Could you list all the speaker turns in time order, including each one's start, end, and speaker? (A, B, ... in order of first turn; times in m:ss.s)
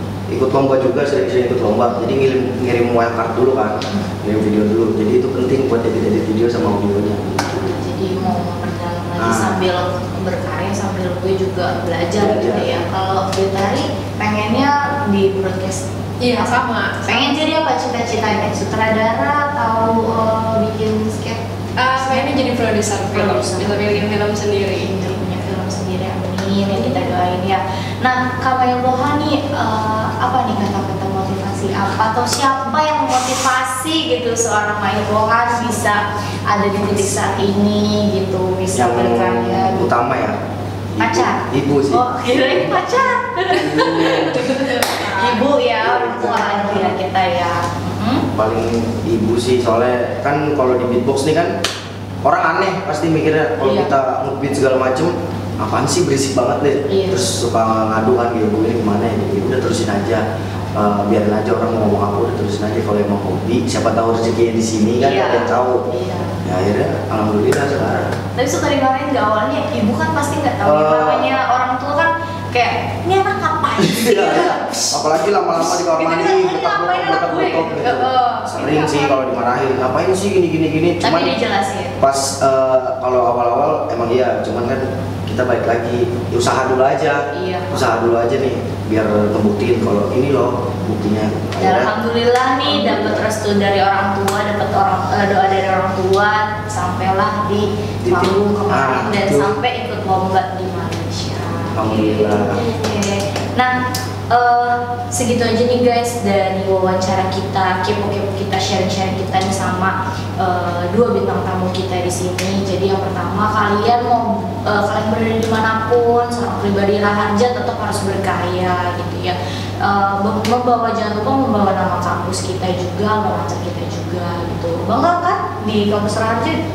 0:00.3-0:07.8 A
0:03.9-0:04.1 B
0:07.4-0:16.5 B
0:09.2-0:09.6 A
0:12.2-0:12.7 A
0:16.2-0:17.5 C
0:17.0-0:21.4 B
0:21.8-0:25.1 C
0:22.0-0:24.1 B
0:24.7-0:39.9 B
0:38.7-0:40.4 A
0:41.0-0:42.9 A
0:41.0-0:48.3 B
0:43.5-0:44.4 A
0:43.9-0:45.4 C
0:45.8-0:46.9 A
0:48.3-0:51.5 A
0:52.2-1:05.8 A
0:53.6-0:53.9 B
0:56.9-0:57.2 B
1:05.0-1:06.4 B
1:06.4-1:08.1 A
1:08.4-1:15.0 B
1:10.6-1:11.3 A
1:13.8-1:21.3 A
1:15.5-1:19.4 B
1:21.0-1:22.0 B
1:22.0-1:31.9 A
1:27.3-1:27.9 B
1:31.6-1:43.8 B
1:32.7-1:33.2 A
1:38.0-1:39.5 A
1:41.7-1:42.7 A
1:44.3-2:06.6 B